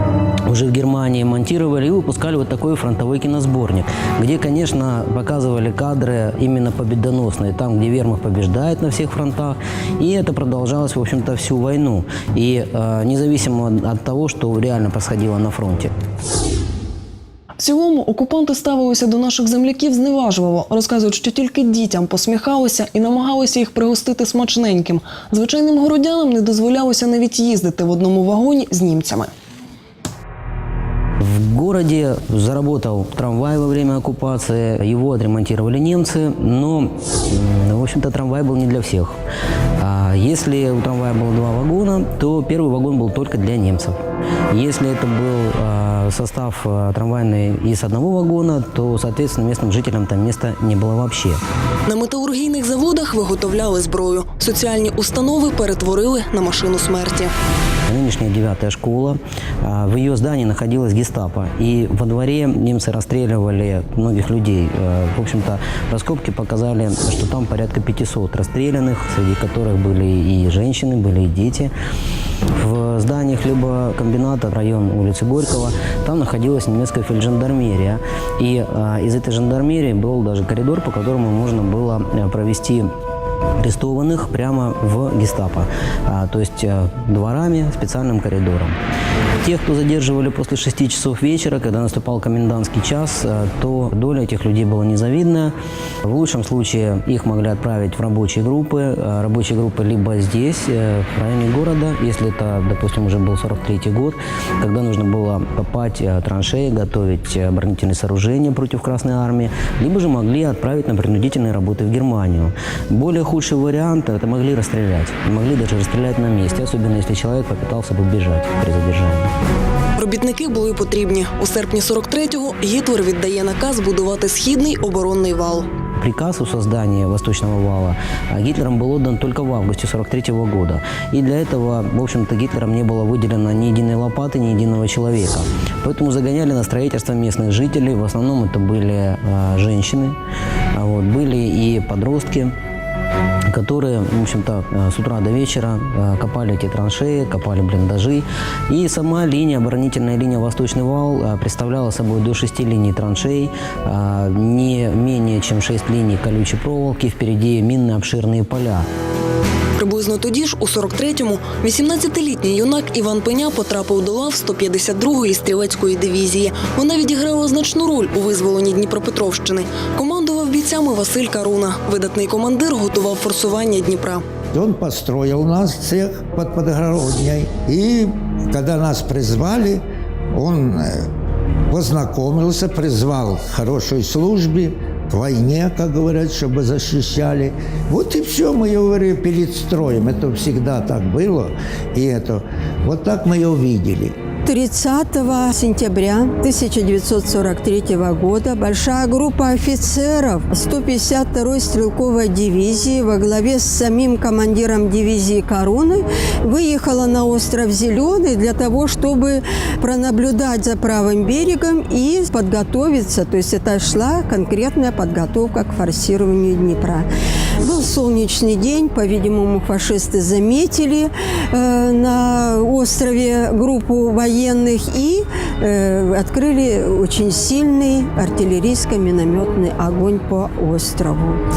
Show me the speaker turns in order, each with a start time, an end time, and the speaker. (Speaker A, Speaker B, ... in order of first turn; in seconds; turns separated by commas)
Speaker A: 0.5-15.9, Speaker B: 17.6-29.3, Speaker A: 31.2-39.2, Speaker A: 39.8-44.0, Speaker A: 44.5-51.4, Speaker B: 51.9-57.3, Speaker A: 57.9-71.7, Speaker A: 72.5-82.9, Speaker A: 83.6-88.8, Speaker A: 89.4-119.3, Speaker B: 120.0-125.7, Speaker A: 126.0-140.2, Speaker A: 140.7-142.5, Speaker A: 143.5-158.9, Speaker B: 159.8-174.2, Speaker C: 174.5-181.1, Speaker C: 181.7-194.2, Speaker D: 194.4-217.1, Speaker D: 217.6-231.4